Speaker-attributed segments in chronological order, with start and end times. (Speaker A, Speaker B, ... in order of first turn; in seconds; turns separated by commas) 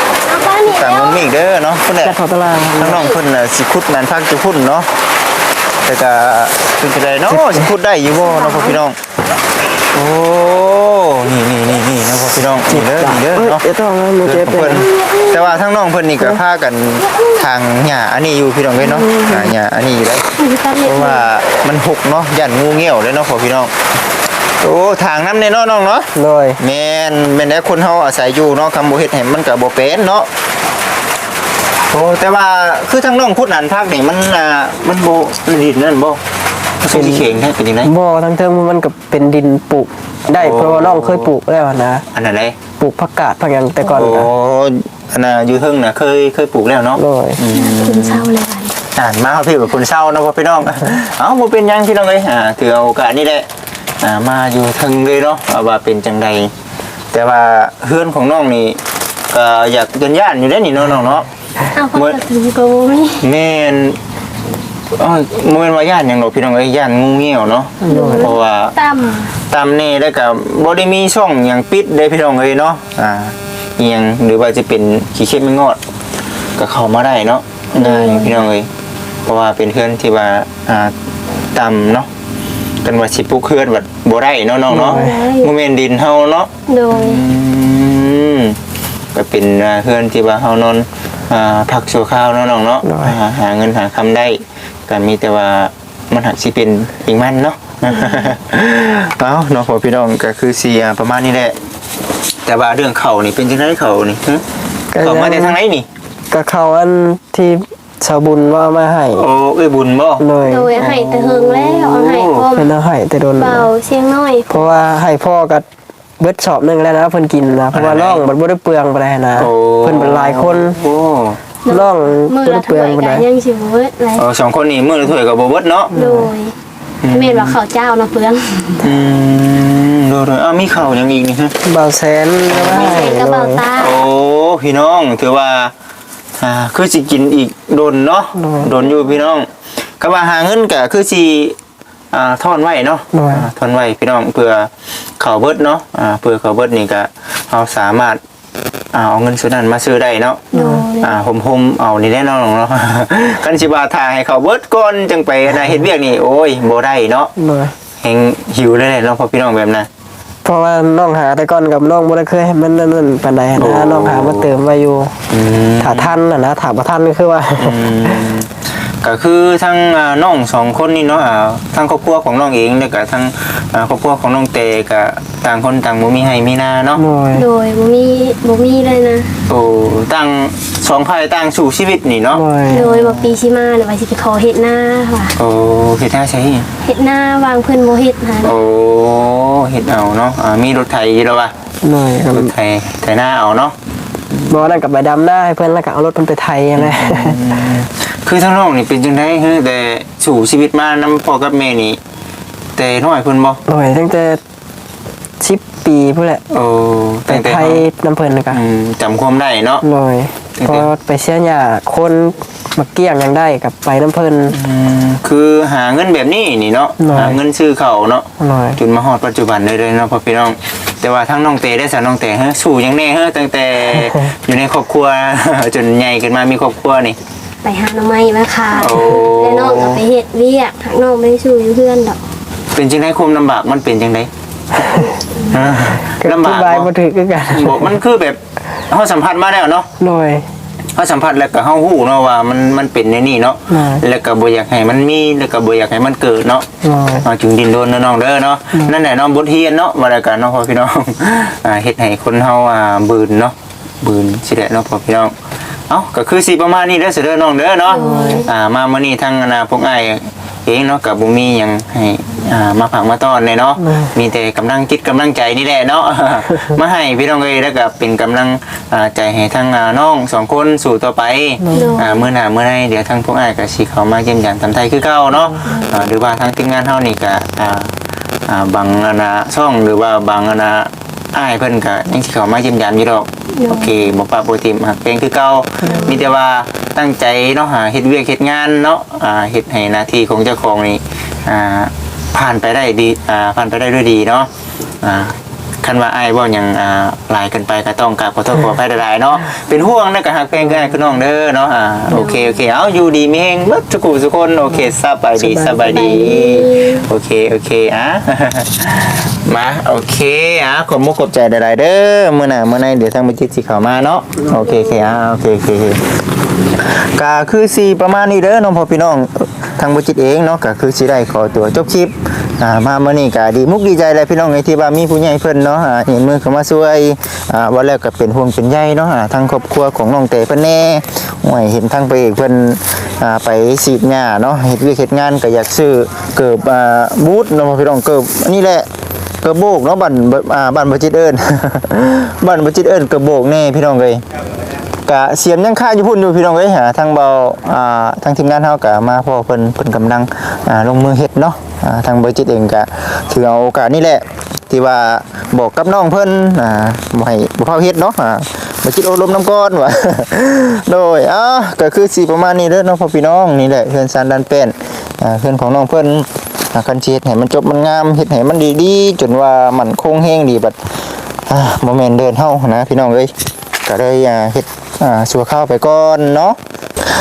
Speaker A: 0.2-1.2, Speaker B: 0.7-4.9, Speaker C: 1.9-3.1, Speaker B: 5.8-9.0, Speaker C: 7.3-7.7, Speaker A: 8.2-8.8, Speaker B: 9.9-13.6, Speaker C: 12.7-15.1, Speaker B: 14.2-23.7, Speaker C: 18.8-19.5, Speaker A: 20.4-21.3, Speaker B: 24.6-30.3, Speaker C: 26.1-26.6, Speaker B: 31.9-36.2, Speaker B: 36.8-37.9, Speaker C: 36.9-37.3, Speaker C: 37.8-42.0, Speaker B: 40.3-41.3, Speaker B: 42.1-42.6, Speaker C: 42.8-44.3, Speaker B: 43.8-48.3, Speaker C: 47.0-47.4, Speaker A: 47.5-48.8, Speaker B: 48.9-53.5, Speaker B: 54.0-56.5, Speaker B: 57.1-61.3, Speaker A: 61.7-63.2, Speaker B: 61.9-62.2, Speaker B: 63.2-64.0, Speaker B: 64.9-68.8, Speaker C: 67.8-68.3, Speaker A: 67.9-69.3, Speaker B: 69.5-75.8, Speaker B: 76.6-78.7, Speaker A: 77.8-78.4, Speaker B: 79.2-80.9, Speaker B: 81.5-82.1, Speaker B: 82.8-88.6, Speaker C: 84.7-85.2, Speaker A: 84.7-85.5, Speaker A: 86.7-87.2, Speaker B: 89.1-101.5, Speaker C: 92.8-93.2, Speaker B: 102.4-104.4, Speaker C: 104.9-105.6, Speaker B: 105.0-105.9, Speaker C: 106.3-109.3, Speaker B: 109.2-112.5, Speaker C: 110.2-110.7, Speaker A: 110.4-112.7, Speaker C: 112.5-113.7, Speaker A: 113.3-114.7, Speaker C: 114.5-115.7, Speaker C: 116.2-120.8, Speaker B: 117.7-118.2, Speaker B: 119.3-121.4, Speaker A: 121.6-124.2, Speaker C: 121.7-123.3, Speaker B: 124.2-125.9, Speaker C: 125.9-126.3, Speaker A: 125.9-126.5, Speaker B: 127.0-127.6, Speaker A: 127.1-128.9, Speaker B: 128.8-131.6, Speaker C: 131.6-133.7, Speaker B: 132.4-133.2, Speaker A: 132.7-134.0, Speaker B: 133.7-135.7, Speaker B: 136.4-139.5, Speaker C: 138.4-138.7, Speaker B: 140.0-141.6, Speaker B: 142.1-148.2, Speaker C: 143.1-143.5, Speaker B: 148.9-150.5, Speaker C: 150.5-150.9, Speaker A: 150.5-151.2, Speaker B: 151.0-157.3, Speaker C: 157.3-157.7, Speaker B: 158.0-159.9, Speaker C: 160.4-165.1, Speaker B: 163.6-164.5, Speaker B: 165.3-166.2, Speaker C: 165.8-168.2, Speaker B: 167.6-177.0, Speaker C: 176.9-177.5, Speaker A: 177.3-179.3, Speaker B: 179.5-183.3, Speaker C: 182.3-182.8, Speaker A: 182.7-185.3, Speaker B: 185.3-186.7, Speaker A: 186.8-188.5, Speaker B: 188.4-191.5, Speaker C: 191.8-192.5, Speaker B: 192.3-193.8, Speaker C: 194.5-197.4, Speaker B: 196.8-202.0, Speaker B: 202.8-203.6, Speaker C: 203.7-204.4, Speaker C: 205.4-206.4, Speaker B: 206.5-207.9, Speaker C: 207.3-208.6, Speaker B: 208.5-209.8, Speaker C: 209.8-214.6, Speaker B: 210.6-210.9, Speaker B: 214.5-218.2, Speaker C: 217.0-217.4, Speaker C: 218.4-218.8, Speaker B: 218.8-227.2, Speaker C: 223.9-224.3, Speaker A: 227.6-232.2, Speaker B: 228.7-230.0, Speaker B: 232.7-234.3, Speaker C: 234.8-235.1, Speaker B: 235.5-236.9, Speaker C: 236.0-237.9, Speaker B: 237.5-239.9, Speaker C: 240.0-240.5, Speaker B: 240.9-246.7, Speaker C: 243.7-244.0, Speaker C: 246.8-247.2, Speaker B: 247.2-255.3, Speaker B: 255.9-277.9, Speaker A: 257.9-258.5, Speaker C: 257.9-258.4, Speaker C: 271.6-271.9, Speaker A: 271.7-272.2, Speaker B: 278.5-294.5, Speaker A: 283.6-283.9, Speaker A: 285.9-286.1, Speaker B: 295.0-316.1, Speaker A: 302.1-302.6, Speaker C: 305.4-306.0, Speaker A: 305.8-307.0, Speaker B: 316.8-338.9, Speaker B: 339.4-344.2, Speaker B: 345.1-370.8, Speaker B: 371.5-373.3, Speaker B: 373.8-376.6